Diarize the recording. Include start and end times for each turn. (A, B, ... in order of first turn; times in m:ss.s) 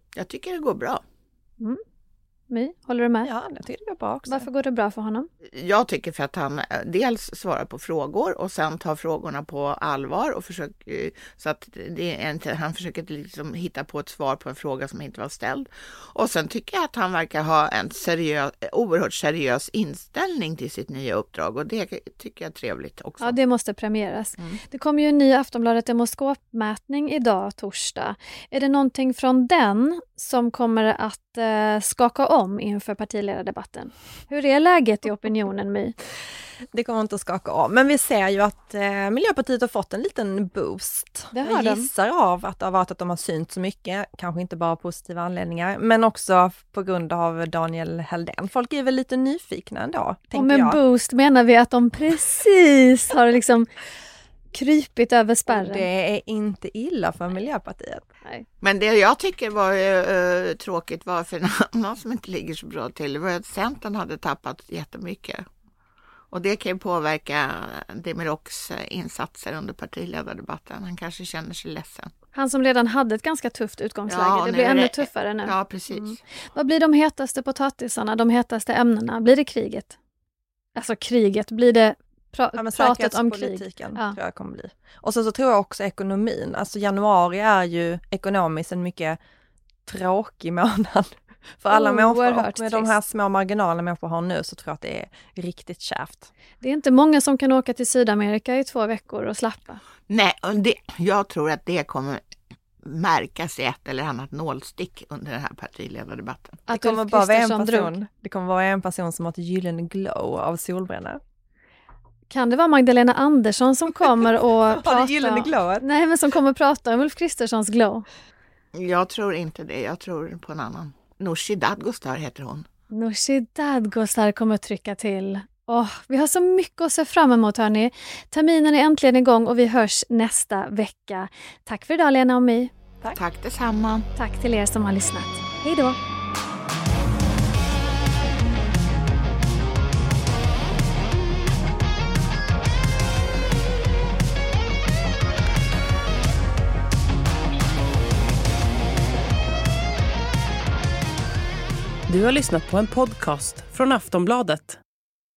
0:00.2-0:01.0 A
0:02.5-0:03.3 B
0:03.2-0:04.4 C
0:04.3-0:05.3 B
0:05.5-0:23.4 A
0:23.2-0:36.0 B
0:36.7-0:50.8 C
0:41.3-0:41.9 B
0:50.3-0:53.7 B
0:54.5-0:55.9 B
0:55.5-0:58.1 C
0:58.6-1:05.4 A
1:06.3-1:12.1 A
1:12.4-1:15.5 B
1:14.1-1:16.2 A
1:16.6-1:20.0 B
1:20.8-1:24.2 B
1:22.6-1:29.2 C
1:29.9-1:36.3 C
1:31.7-1:32.9 B
1:36.6-1:39.8 B
1:40.1-1:42.2 A
1:42.8-1:46.6 A
1:46.7-1:47.9 B
1:46.7-1:51.2 C
1:52.3-1:58.0 B
1:54.7-1:55.8 C
1:58.7-2:02.7 A
2:02.9-2:12.7 B
2:13.0-2:14.1 A
2:14.2-2:16.0 B
2:32.1-2:34.8 D